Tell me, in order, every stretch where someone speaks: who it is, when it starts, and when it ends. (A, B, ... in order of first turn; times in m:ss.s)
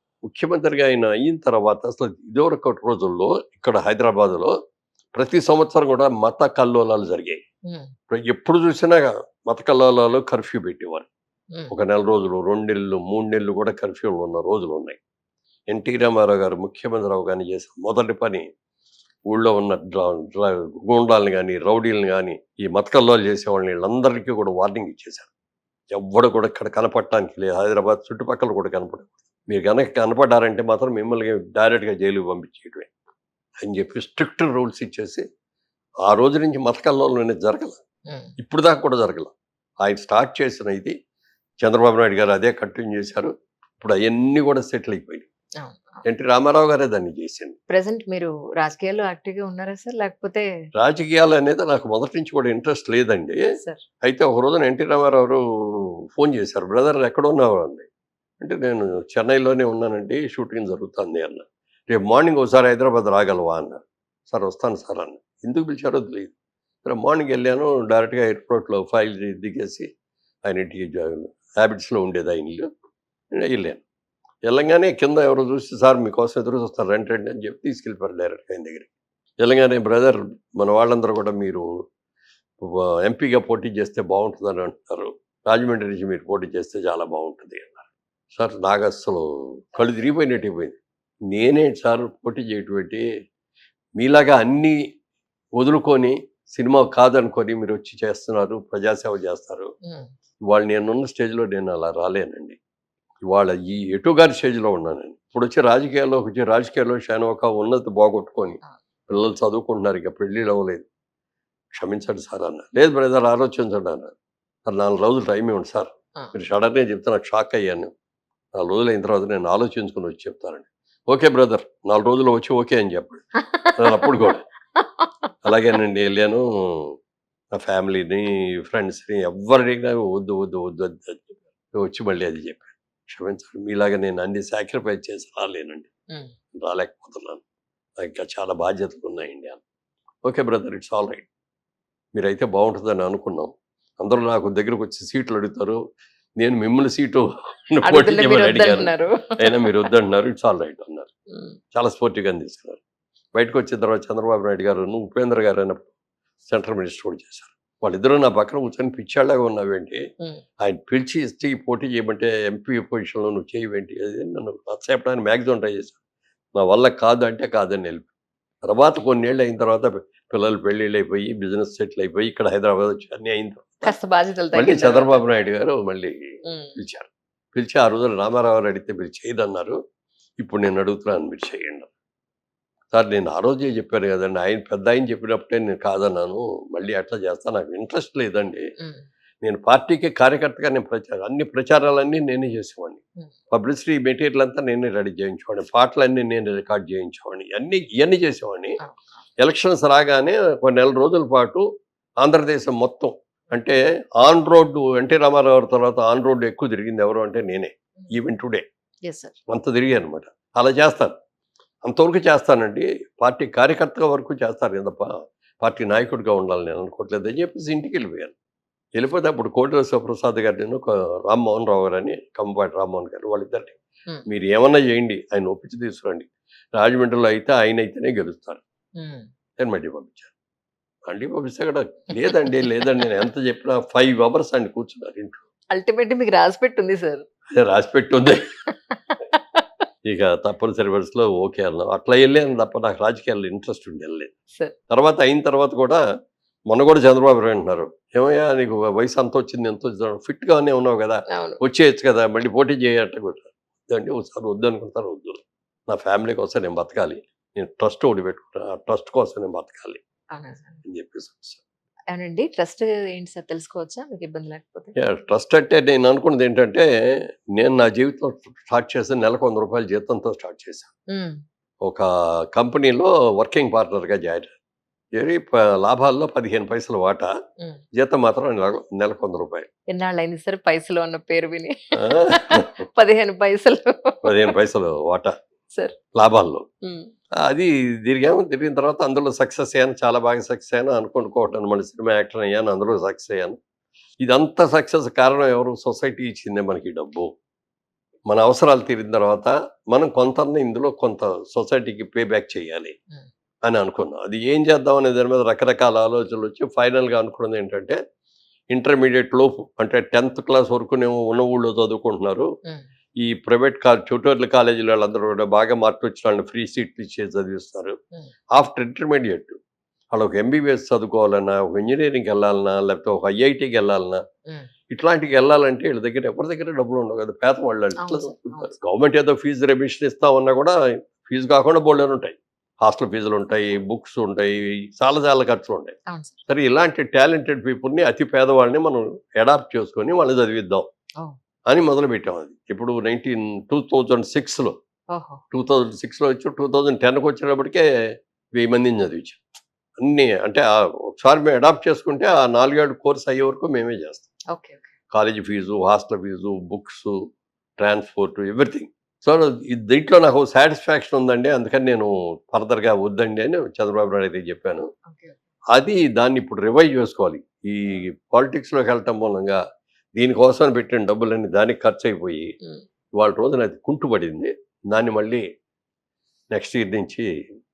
0:00.2-0:04.5 A
0:05.2-0:07.4 A
0:08.1-0:11.0 A
0:11.7-0:15.0 A
0:15.7-0:18.5 A
0:19.3-0:25.3 A
0:25.9-0:32.9 A
0:33.6-0:35.2 A
0:36.0-0:37.8 A
0:38.4-0:40.9 A
0:41.6-0:45.3 A
0:45.6-0:46.0 B
0:46.0-0:47.6 A
0:47.7-0:50.5 B
0:50.8-0:53.4 A
0:54.0-0:57.8 A
0:58.4-1:06.3 A
1:06.8-1:09.9 A
1:10.4-1:12.7 A
1:13.3-1:13.8 A
1:14.5-1:18.9 A
1:19.4-1:21.8 A
1:22.6-1:30.8 A
1:31.3-1:33.0 A
1:34.0-1:34.8 A
1:35.6-1:39.7 A
1:39.8-1:40.1 B
1:40.5-1:42.6 A
1:43.2-1:50.8 A
1:51.8-1:54.1 A
1:54.6-1:57.9 A
1:58.6-2:04.4 A
2:03.4-2:05.3 B
2:05.4-2:07.0 A
2:07.5-2:15.9 A
2:16.6-2:17.4 A
2:18.0-2:19.6 A
2:20.3-2:21.3 A
2:22.1-2:25.8 A
2:26.4-2:31.1 A
2:27.8-2:29.9 B
2:31.3-2:31.6 B
2:31.7-2:32.8 A
2:33.4-2:35.9 A
2:36.5-2:40.0 A
2:40.6-2:46.0 A
2:46.6-2:48.1 A
2:48.7-2:53.9 A
2:53.8-2:55.2 B
2:54.5-2:56.1 A
2:56.4-2:56.8 B
2:56.8-2:59.8 A
3:00.4-3:01.9 A
3:02.9-3:08.6 A
3:08.8-3:09.0 B
3:09.4-3:18.8 A
3:19.4-3:21.6 A
3:22.2-3:28.6 A
3:29.0-3:29.4 B
3:29.5-3:31.2 A
3:31.8-3:38.3 A
3:39.0-3:48.6 A
3:49.0-3:49.3 B
3:49.6-3:50.3 A
3:51.1-3:55.4 A
3:52.2-3:52.9 B
3:55.7-3:57.2 B
3:57.5-3:58.5 A
3:58.7-3:59.7 B
4:00.0-4:04.3 A
4:04.9-4:06.0 A
4:06.7-4:20.0 A
4:11.3-4:11.6 B
4:20.3-4:20.8 B
4:20.8-4:21.6 A
4:22.1-4:24.9 B
4:25.0-4:26.9 A
4:27.6-4:30.9 A
4:31.1-4:31.4 B
4:31.8-4:34.5 A
4:35.2-4:37.3 A
4:38.0-4:39.7 A
4:39.9-4:44.5 B
4:42.0-4:42.7 A
4:44.2-4:45.3 A
4:46.1-4:46.6 A
4:46.8-4:47.1 B
4:47.4-4:53.6 A
4:54.2-4:57.3 A
4:58.3-5:02.9 A
5:03.6-5:08.0 A
5:08.7-5:12.5 A
5:13.2-5:18.0 A
5:18.6-5:19.6 A
5:20.1-5:24.2 A
5:24.9-5:35.9 A
5:28.0-5:28.7 B
5:36.1-5:36.4 B
5:36.5-5:40.9 A
5:41.7-5:44.8 A
5:45.1-5:45.4 B
5:45.5-5:47.8 A
5:48.6-5:49.4 A
5:50.0-5:54.3 A
5:54.5-5:54.9 B
5:55.1-5:57.2 A
5:57.8-6:04.9 A
6:05.1-6:05.4 B
6:05.7-6:09.6 A
6:10.2-6:12.5 A
6:13.2-6:15.4 A
6:16.5-6:17.3 A